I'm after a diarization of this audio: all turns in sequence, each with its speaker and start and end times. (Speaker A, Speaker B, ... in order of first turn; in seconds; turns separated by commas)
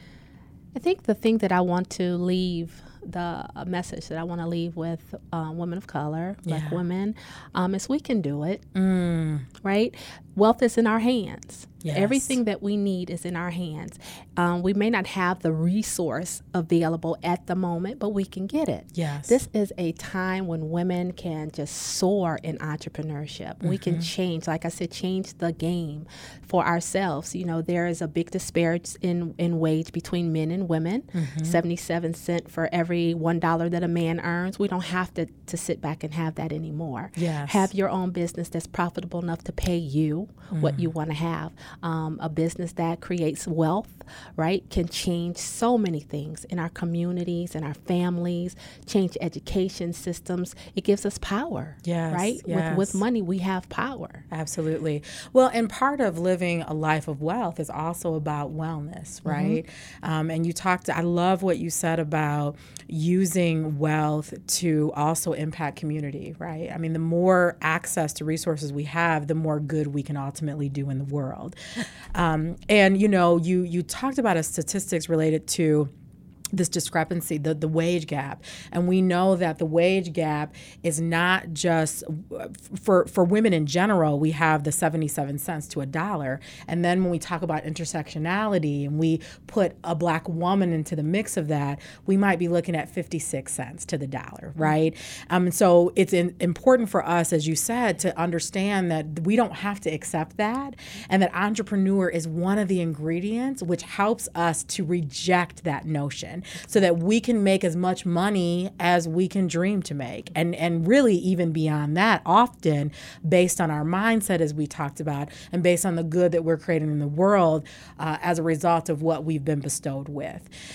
Speaker A: 0.7-8.6, Speaker B: 6.5-6.8, Speaker B: 8.7-9.5, Speaker A: 9.6-54.2, Speaker B: 11.8-12.4, Speaker B: 18.9-19.4, Speaker B: 23.6-24.1, Speaker B: 31.1-31.6, Speaker B: 37.1-37.7, Speaker B: 40.5-40.9, Speaker B: 51.8-53.0, Speaker B: 54.3-71.5, Speaker A: 59.2-59.6, Speaker B: 72.1-75.9, Speaker B: 76.5-120.5